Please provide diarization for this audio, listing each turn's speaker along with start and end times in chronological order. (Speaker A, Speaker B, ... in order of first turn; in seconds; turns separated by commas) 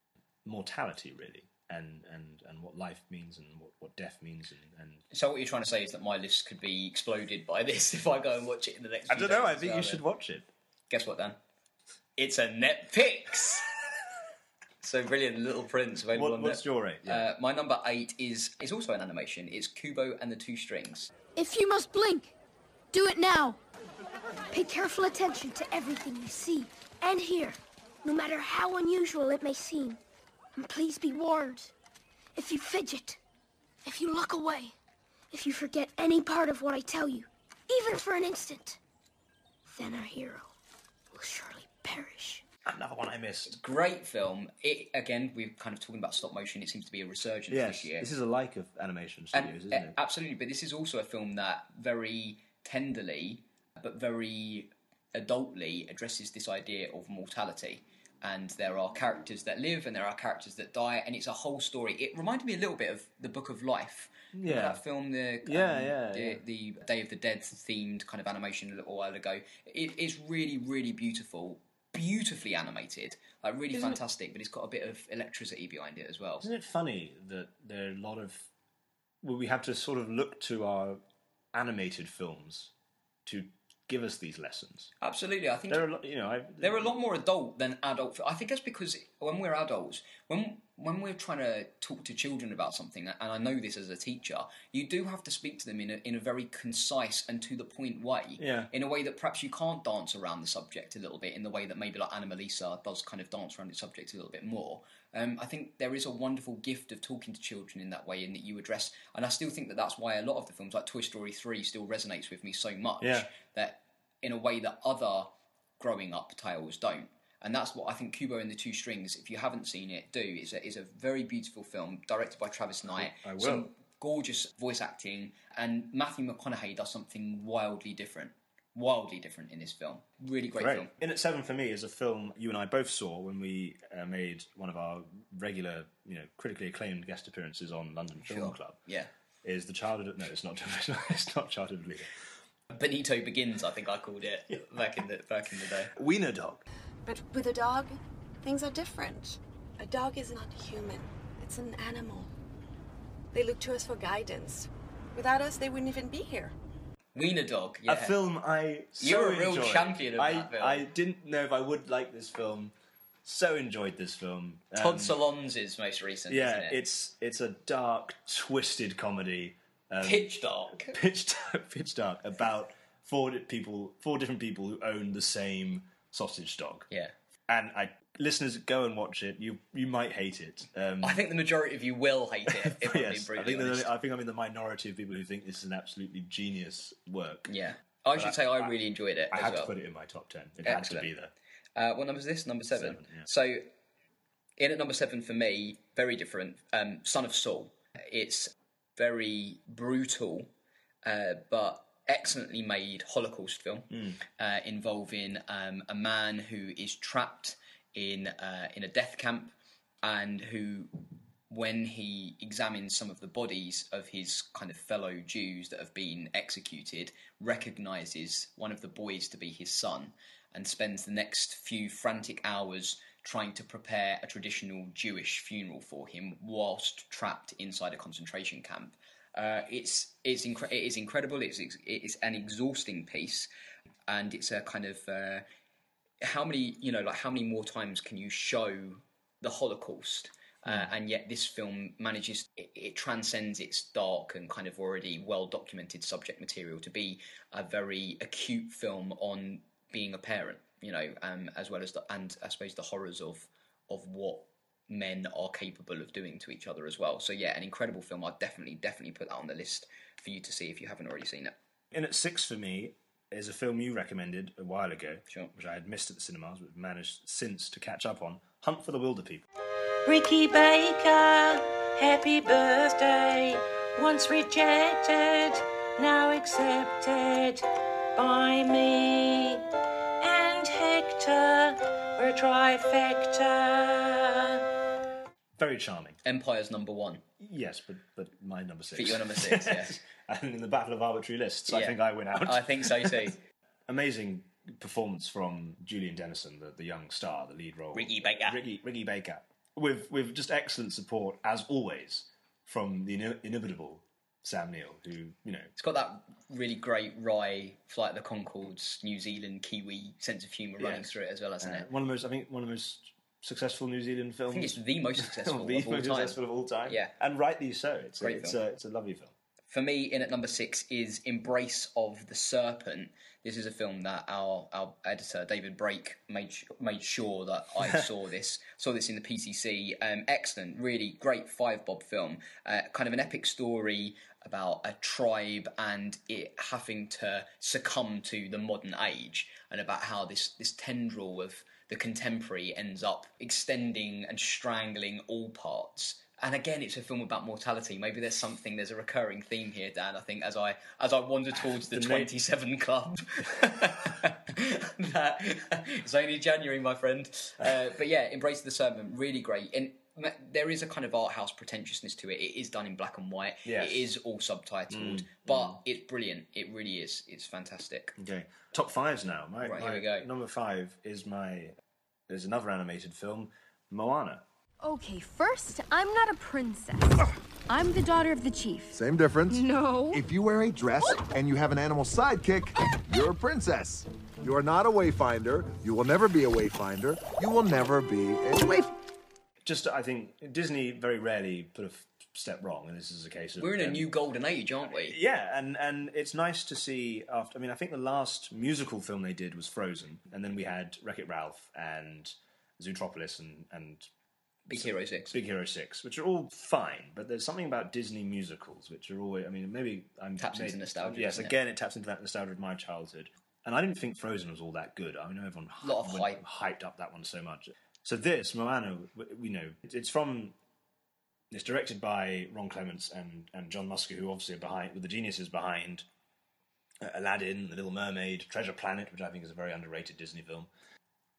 Speaker A: 0.4-5.0, Speaker B: 5.1-10.0, Speaker A: 9.1-10.5, Speaker B: 10.9-11.4, Speaker B: 12.2-13.7, Speaker B: 14.8-21.1, Speaker A: 16.1-17.2, Speaker C: 21.4-22.3, Speaker C: 22.9-23.6, Speaker C: 24.5-30.0, Speaker C: 30.6-31.7, Speaker C: 32.3-33.2, Speaker C: 33.8-34.7, Speaker C: 35.3-38.8, Speaker C: 39.6-40.5, Speaker C: 41.1-42.4, Speaker A: 42.6-43.5, Speaker B: 43.5-48.1, Speaker A: 47.5-49.9, Speaker B: 49.3-76.5, Speaker A: 64.3-64.8, Speaker A: 65.4-66.4, Speaker A: 73.7-74.0, Speaker A: 76.4-78.5, Speaker A: 79.2-81.0, Speaker A: 81.5-82.7, Speaker A: 83.2-84.9, Speaker B: 85.0-85.9, Speaker A: 85.7-86.9, Speaker B: 86.6-115.3, Speaker A: 98.4-98.7, Speaker A: 113.0-113.3, Speaker B: 115.8-130.9, Speaker A: 122.9-123.7, Speaker A: 130.5-138.8, Speaker B: 138.2-139.1, Speaker A: 139.4-142.1, Speaker B: 142.7-145.9, Speaker A: 145.9-146.6, Speaker D: 147.1-152.3, Speaker D: 153.3-156.5, Speaker B: 157.1-158.1, Speaker A: 157.9-162.7, Speaker B: 159.0-160.9, Speaker A: 163.2-165.2, Speaker B: 164.8-166.8, Speaker A: 166.3-176.9, Speaker B: 170.0-170.9, Speaker A: 177.5-181.2, Speaker B: 181.0-183.9, Speaker A: 182.6-187.5, Speaker B: 187.5-189.7, Speaker A: 188.2-188.7, Speaker A: 189.3-191.3, Speaker B: 190.6-191.1, Speaker B: 191.8-193.7, Speaker A: 192.7-193.3, Speaker B: 194.6-200.5, Speaker B: 201.0-210.9, Speaker A: 203.9-204.2, Speaker B: 211.5-233.5, Speaker B: 234.1-235.4, Speaker B: 236.2-261.5, Speaker A: 261.9-269.4, Speaker E: 270.1-277.6, Speaker E: 278.1-279.6, Speaker E: 280.2-284.6, Speaker A: 285.6-286.2, Speaker B: 286.2-287.2, Speaker A: 287.4-293.3, Speaker B: 288.9-289.9, Speaker B: 291.7-293.4, Speaker A: 293.9-305.7, Speaker B: 297.9-298.6, Speaker B: 305.8-311.9, Speaker A: 310.8-311.1, Speaker A: 311.6-319.3, Speaker B: 314.5-317.1, Speaker B: 318.2-318.6, Speaker B: 319.7-368.1, Speaker A: 351.8-352.3, Speaker A: 363.6-364.1, Speaker A: 364.9-365.8, Speaker A: 368.2-371.7, Speaker B: 369.6-370.3, Speaker A: 372.3-374.4, Speaker F: 374.8-378.9, Speaker G: 378.9-388.9, Speaker F: 379.5-380.2, Speaker A: 389.6-394.1, Speaker B: 393.6-395.2, Speaker A: 394.9-404.1, Speaker B: 404.7-405.4, Speaker A: 404.7-420.5, Speaker B: 410.4-411.5, Speaker B: 415.8-416.4, Speaker A: 421.5-426.0, Speaker A: 427.0-430.7